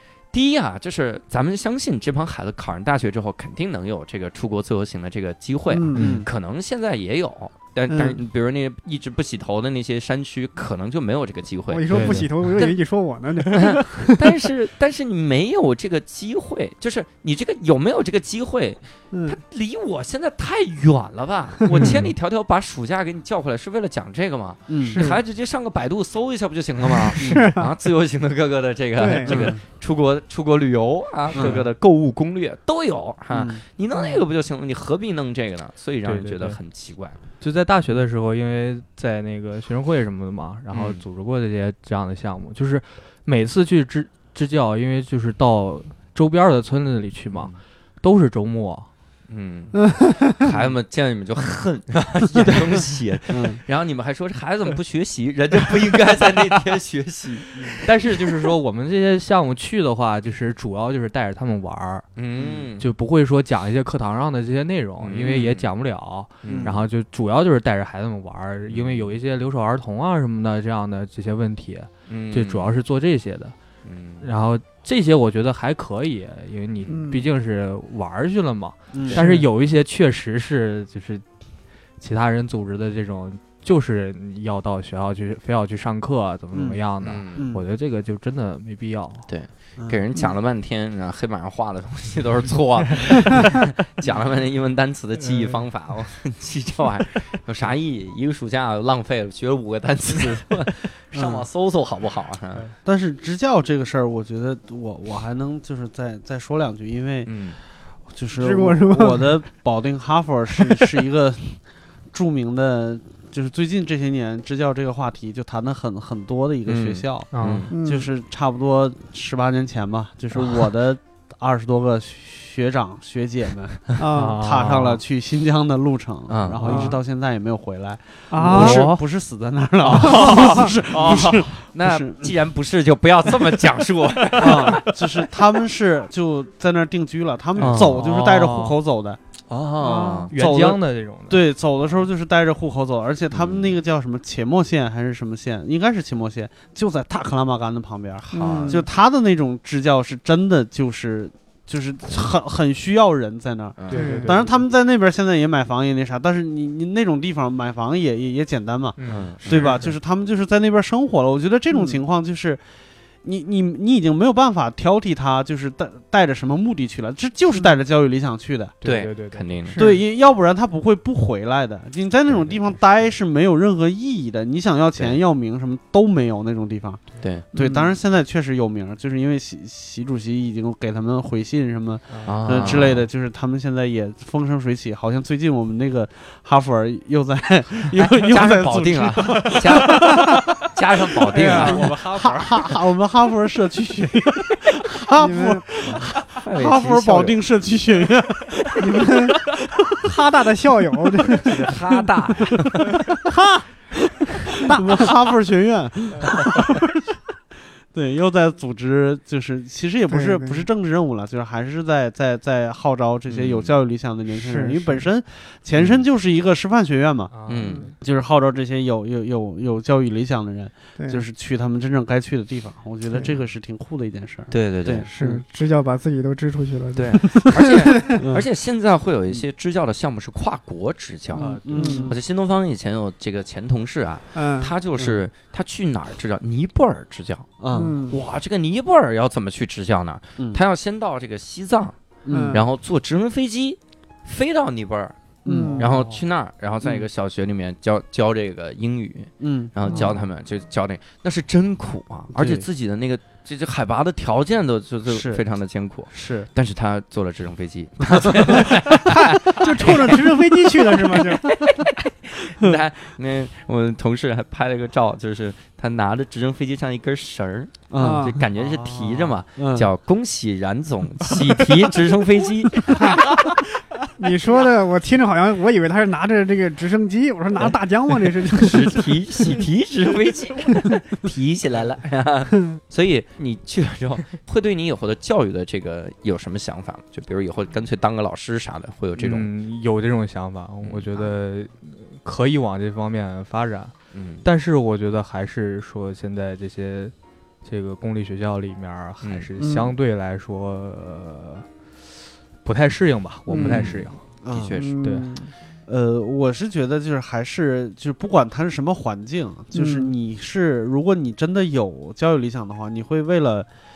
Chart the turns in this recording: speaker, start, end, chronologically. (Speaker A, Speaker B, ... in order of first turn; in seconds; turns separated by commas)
Speaker A: 0.3-12.8, Speaker B: 5.7-6.2, Speaker C: 6.0-6.2, Speaker D: 6.0-6.3, Speaker B: 7.9-8.2, Speaker B: 11.7-14.2, Speaker C: 11.9-12.3, Speaker A: 13.5-37.2, Speaker B: 19.1-19.4, Speaker C: 21.7-22.1, Speaker D: 24.7-25.1, Speaker B: 24.8-25.2, Speaker D: 27.2-27.5, Speaker B: 27.2-27.7, Speaker B: 29.0-29.5, Speaker D: 29.3-29.6, Speaker D: 31.3-31.6, Speaker C: 31.4-31.6, Speaker D: 33.3-33.6, Speaker C: 36.0-36.6, Speaker C: 37.4-48.9, Speaker A: 40.7-41.0, Speaker A: 47.3-47.6, Speaker A: 49.3-58.4, Speaker C: 52.4-52.6, Speaker D: 53.3-53.6, Speaker C: 57.8-62.1, Speaker A: 62.2-62.9, Speaker D: 62.4-62.6, Speaker C: 62.8-73.5, Speaker A: 65.0-65.7, Speaker A: 66.4-66.8, Speaker D: 66.5-66.8, Speaker A: 68.7-69.1, Speaker A: 72.1-72.7, Speaker A: 73.8-74.3, Speaker C: 74.2-81.2, Speaker B: 76.9-77.3, Speaker D: 78.9-79.3, Speaker B: 79.1-79.4, Speaker C: 82.0-89.3, Speaker D: 86.5-86.8, Speaker A: 87.0-87.5, Speaker D: 87.3-87.6, Speaker A: 89.3-102.7, Speaker C: 95.2-95.6, Speaker D: 101.1-101.5, Speaker D: 102.8-132.3, Speaker A: 107.2-107.6, Speaker B: 108.4-109.5, Speaker A: 116.7-117.7, Speaker C: 117.3-117.7, Speaker B: 117.7-118.1, Speaker B: 124.0-124.4, Speaker C: 124.1-125.0, Speaker A: 126.3-126.9, Speaker B: 126.6-127.0, Speaker B: 128.3-128.9, Speaker A: 128.5-129.0, Speaker C: 128.5-129.0, Speaker C: 129.9-131.4, Speaker A: 129.9-134.9, Speaker B: 130.0-130.7, Speaker C: 134.4-135.0, Speaker D: 134.4-139.2, Speaker C: 137.6-138.8, Speaker A: 137.6-138.0, Speaker A: 139.5-140.3, Speaker B: 139.8-140.3, Speaker C: 140.3-141.5, Speaker D: 140.3-162.6, Speaker A: 143.3-143.8, Speaker A: 148.3-148.8, Speaker B: 148.3-148.9, Speaker A: 153.8-154.1, Speaker C: 153.9-154.6, Speaker B: 153.9-154.4, Speaker C: 159.0-159.8, Speaker A: 159.1-159.7, Speaker B: 161.7-162.0, Speaker D: 163.2-168.8, Speaker C: 168.8-169.7, Speaker A: 168.8-169.8, Speaker B: 169.7-170.1, Speaker D: 169.8-190.3, Speaker A: 177.2-177.5, Speaker B: 177.5-177.9, Speaker C: 182.1-182.9, Speaker A: 182.2-183.1, Speaker A: 188.0-191.9, Speaker C: 191.3-192.7, Speaker B: 191.3-191.9, Speaker D: 191.5-198.8, Speaker B: 195.2-195.7, Speaker A: 195.8-197.4, Speaker B: 198.8-202.1, Speaker A: 201.4-203.1, Speaker B: 202.9-203.7, Speaker B: 204.5-205.1, Speaker D: 204.6-206.8, Speaker D: 207.9-217.4, Speaker B: 210.1-210.7, Speaker A: 213.3-213.7, Speaker B: 214.3-215.1, Speaker A: 215.8-216.1, Speaker C: 217.3-217.9, Speaker A: 217.5-217.9, Speaker D: 218.0-225.4, Speaker B: 221.0-221.2, Speaker A: 224.5-225.1, Speaker B: 225.1-228.2, Speaker A: 226.9-242.0, Speaker D: 228.2-228.5, Speaker C: 231.4-232.0, Speaker B: 231.4-232.2, Speaker D: 231.6-232.2, Speaker B: 234.3-234.7, Speaker D: 237.6-238.0, Speaker B: 237.7-238.2, Speaker D: 242.2-242.6, Speaker B: 242.3-242.6, Speaker A: 242.5-245.2, Speaker B: 245.4-245.9, Speaker D: 245.4-245.9, Speaker A: 245.8-260.4, Speaker C: 245.8-246.2, Speaker D: 249.4-250.0, Speaker D: 252.4-252.7, Speaker D: 255.1-255.4, Speaker D: 256.1-256.5, Speaker D: 258.3-258.6, Speaker B: 258.9-261.6, Speaker A: 261.1-273.4, Speaker D: 267.9-268.4, Speaker B: 268.0-268.4, Speaker C: 268.6-269.4, Speaker D: 269.6-269.9, Speaker B: 274.2-279.6, Speaker A: 278.5-289.5, Speaker C: 289.2-301.7, Speaker A: 290.8-291.3, Speaker A: 294.1-294.4, Speaker A: 299.2-299.5, Speaker B: 299.6-299.9, Speaker C: 302.6-304.2, Speaker B: 303.5-303.8, Speaker A: 303.6-305.1, Speaker D: 303.6-304.8, Speaker B: 304.8-305.5, Speaker C: 305.0-305.4, Speaker D: 305.9-313.7, Speaker B: 309.7-310.1